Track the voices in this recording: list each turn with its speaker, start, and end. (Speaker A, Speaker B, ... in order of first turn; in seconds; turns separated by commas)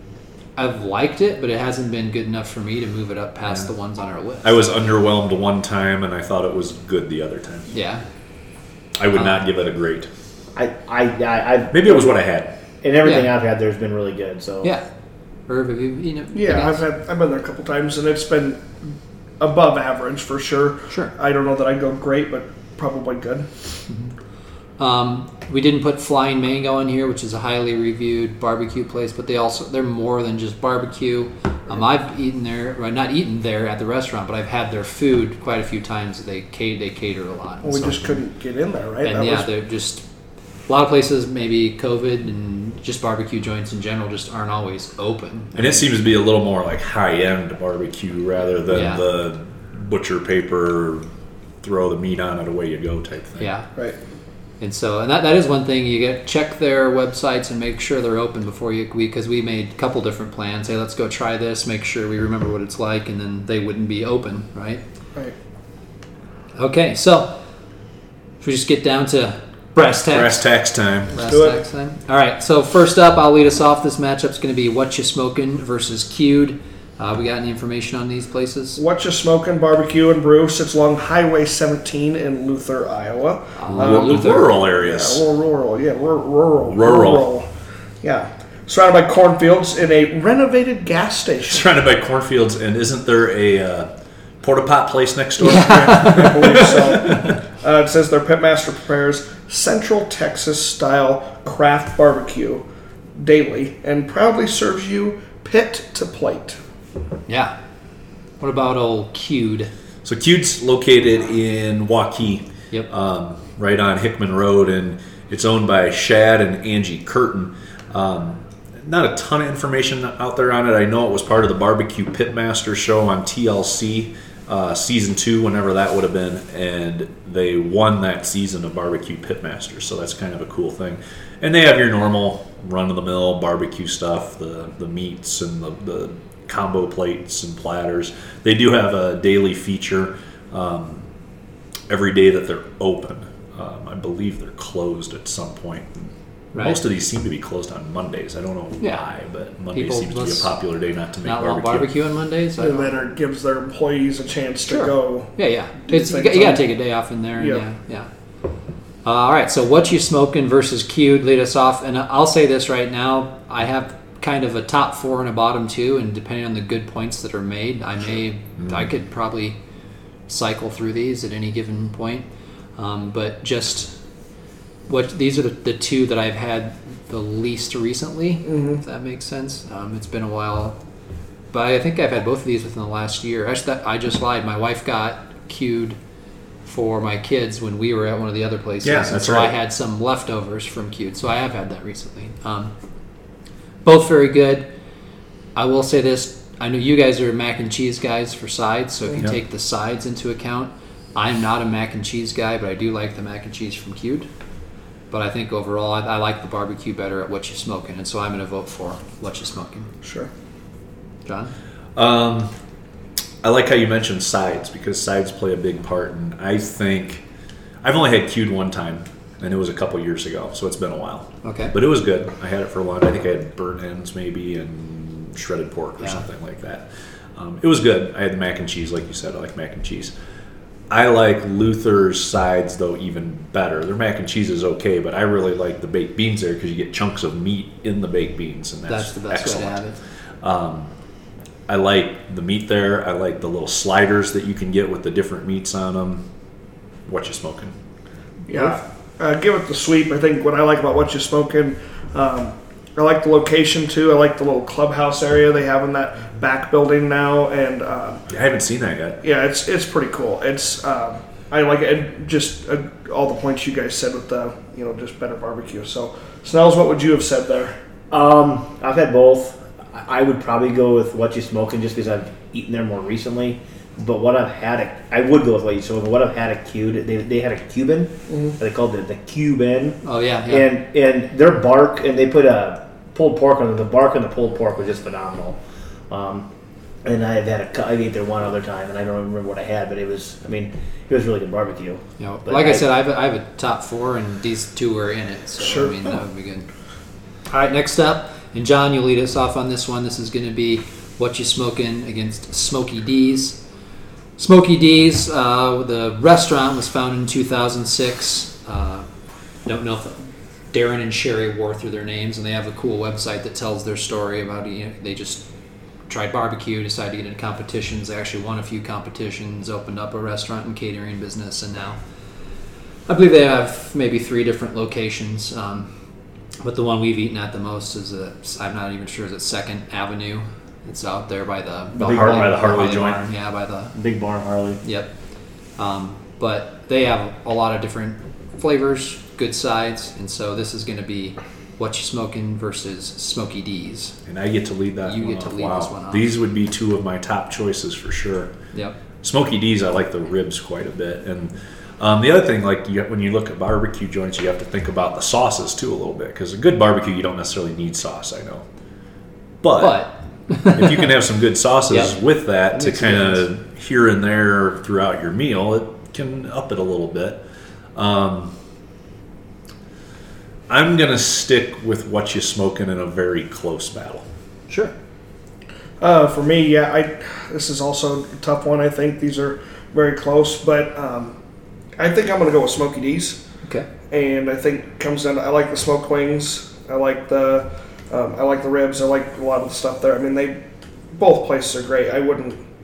Speaker A: 0.6-4.7, Speaker B: 4.4-7.7, Speaker A: 7.7-8.0, Speaker B: 9.0-10.1, Speaker A: 9.1-9.4, Speaker C: 10.6-12.1, Speaker B: 11.7-12.5, Speaker C: 12.8-14.7, Speaker A: 13.0-13.3, Speaker A: 15.5-16.8, Speaker D: 16.3-18.8, Speaker D: 19.4-23.5, Speaker A: 23.9-24.1, Speaker A: 24.8-38.1, Speaker D: 37.6-39.5, Speaker A: 39.0-40.0, Speaker A: 40.7-45.9, Speaker B: 45.5-51.0, Speaker A: 48.7-49.0, Speaker B: 51.6-53.5, Speaker A: 53.4-53.7, Speaker A: 54.6-64.8, Speaker A: 66.6-67.4, Speaker A: 68.4-70.4, Speaker B: 70.1-71.2, Speaker A: 71.1-78.8, Speaker D: 71.1-71.6, Speaker D: 78.8-87.5, Speaker A: 83.6-84.6, Speaker B: 83.7-85.2, Speaker B: 86.7-87.3, Speaker D: 88.0-91.7, Speaker B: 91.5-93.9, Speaker B: 94.4-97.2, Speaker A: 95.4-96.7, Speaker D: 95.5-102.6, Speaker D: 103.2-106.6, Speaker A: 107.3-107.5, Speaker A: 108.4-109.7, Speaker B: 110.0-141.1, Speaker B: 141.9-151.9, Speaker A: 146.5-146.8, Speaker A: 149.7-150.5, Speaker A: 151.2-152.9, Speaker D: 152.6-156.7, Speaker A: 154.7-158.1, Speaker D: 157.4-157.7, Speaker A: 159.0-169.6, Speaker A: 170.3-172.3, Speaker A: 172.8-173.9, Speaker A: 174.9-180.8, Speaker D: 178.4-178.8, Speaker A: 181.5-186.0, Speaker A: 186.7-192.7, Speaker B: 188.8-189.5, Speaker A: 193.8-194.7, Speaker A: 195.6-204.3, Speaker A: 205.1-209.9, Speaker D: 210.0-210.3, Speaker A: 211.3-211.5, Speaker B: 212.0-212.5, Speaker B: 213.4-217.2, Speaker B: 217.8-230.1, Speaker A: 221.4-221.8, Speaker B: 230.9-239.8, Speaker A: 238.9-240.0, Speaker B: 240.4-240.9, Speaker B: 241.7-246.2, Speaker B: 247.1-247.7, Speaker D: 248.5-258.2, Speaker B: 258.3-259.2, Speaker D: 259.2-267.7, Speaker C: 268.1-285.6, Speaker D: 278.3-278.6, Speaker A: 280.0-280.7, Speaker C: 286.1-286.5, Speaker C: 287.0-292.9, Speaker A: 292.2-296.7, Speaker D: 295.6-296.2, Speaker A: 297.5-303.6, Speaker A: 304.4-309.1, Speaker A: 309.7-315.4, Speaker A: 316.1-322.0, Speaker A: 323.1-325.9, Speaker A: 326.6-333.9, Speaker C: 332.0-333.2, Speaker B: 332.0-333.2, Speaker C: 333.9-334.8, Speaker A: 334.8-335.1, Speaker A: 335.8-344.2, Speaker B: 344.3-348.5, Speaker A: 345.0-346.3, Speaker B: 349.2-358.6, Speaker B: 359.6-360.1, Speaker A: 359.8-361.1, Speaker B: 360.7-367.4, Speaker A: 361.9-362.2, Speaker A: 362.7-363.5, Speaker B: 367.9-368.5, Speaker B: 370.7-374.2, Speaker D: 376.0-381.4, Speaker D: 382.0-383.4, Speaker D: 384.1-390.6, Speaker D: 391.1-392.6